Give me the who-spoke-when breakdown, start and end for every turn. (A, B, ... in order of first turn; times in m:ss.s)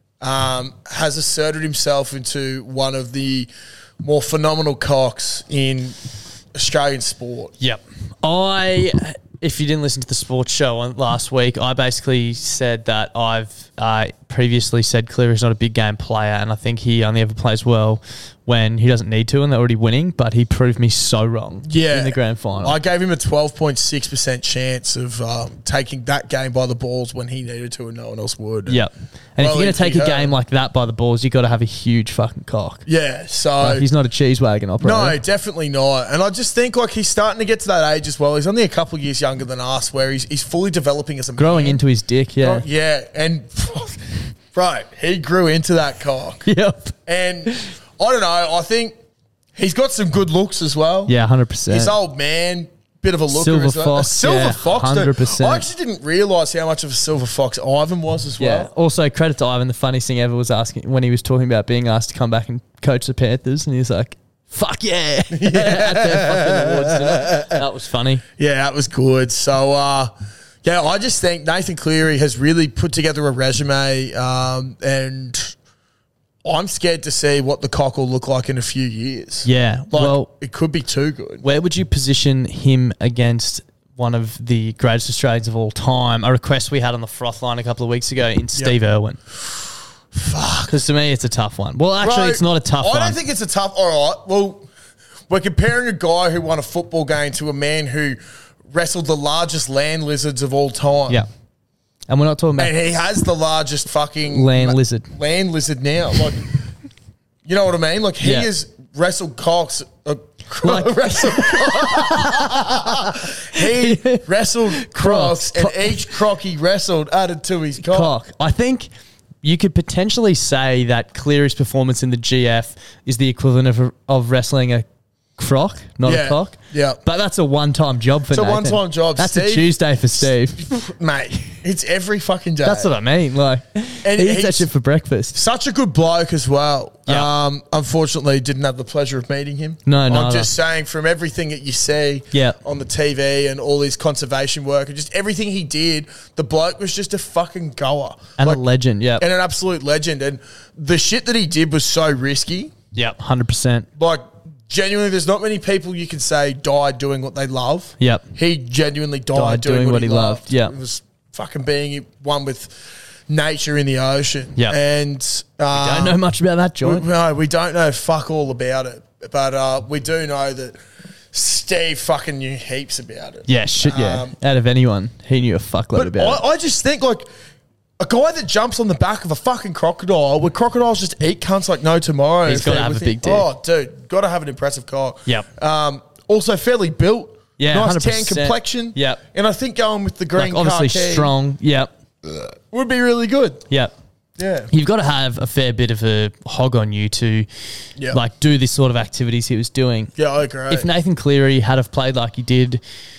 0:00.2-0:06.0 A
0:06.5-0:07.5 A
0:07.6-0:22.8 B
0:21.6-0:28.8 A
0:28.7-0:32.8 B
0:29.4-0:30.3 A
0:32.8-0:33.9 A
0:33.6-0:35.2 B
0:34.8-0:41.8 A
0:41.4-0:42.6 B
0:42.4-0:46.5 A
0:46.4-0:46.9 B
0:47.0-0:48.9 A
0:49.5-0:51.1 A
0:51.1-0:51.9 B
0:51.7-0:58.7 A
0:53.3-0:55.7 B
0:58.4-1:08.2 B
1:05.3-1:07.6 A
1:08.4-1:15.6 A
1:16.4-1:21.4 A
1:19.4-1:20.3 B
1:21.4-1:29.2 B
1:30.1-1:30.8 A
1:30.7-1:33.2 B
1:32.0-1:34.7 A
1:35.3-1:41.2 A
1:42.1-1:42.7 B
1:42.6-1:46.5 A
1:44.3-1:45.1 B
1:47.4-1:58.1 A
1:48.2-1:48.5 B
1:50.6-1:56.1 B
1:57.8-1:58.9 B
1:59.4-2:04.8 B
2:05.4-2:10.6 B
2:06.0-2:07.0 A
2:08.3-2:12.9 A
2:12.6-2:15.4 B
2:14.0-2:14.7 A
2:15.3-2:28.6 A
2:19.8-2:20.5 B
2:22.3-2:22.6 B
2:28.4-2:29.2 B
2:29.2-2:32.7 A
2:32.9-2:33.9 B
2:34.0-2:46.2 A
2:38.0-2:38.3 B
2:39.3-2:40.7 B
2:45.7-2:47.1 B
2:46.8-2:50.8 A
2:51.3-2:54.3 A
2:53.5-2:56.4 B
2:55.9-2:57.3 A
2:58.0-3:11.3 A
3:02.4-3:03.5 B
3:07.6-3:09.2 B
3:10.3-3:11.9 B
3:12.2-3:13.6 A
3:14.4-3:14.7 A
3:14.7-3:17.5 B
3:18.1-3:20.1 B
3:20.2-3:20.9 A
3:20.7-3:22.8 B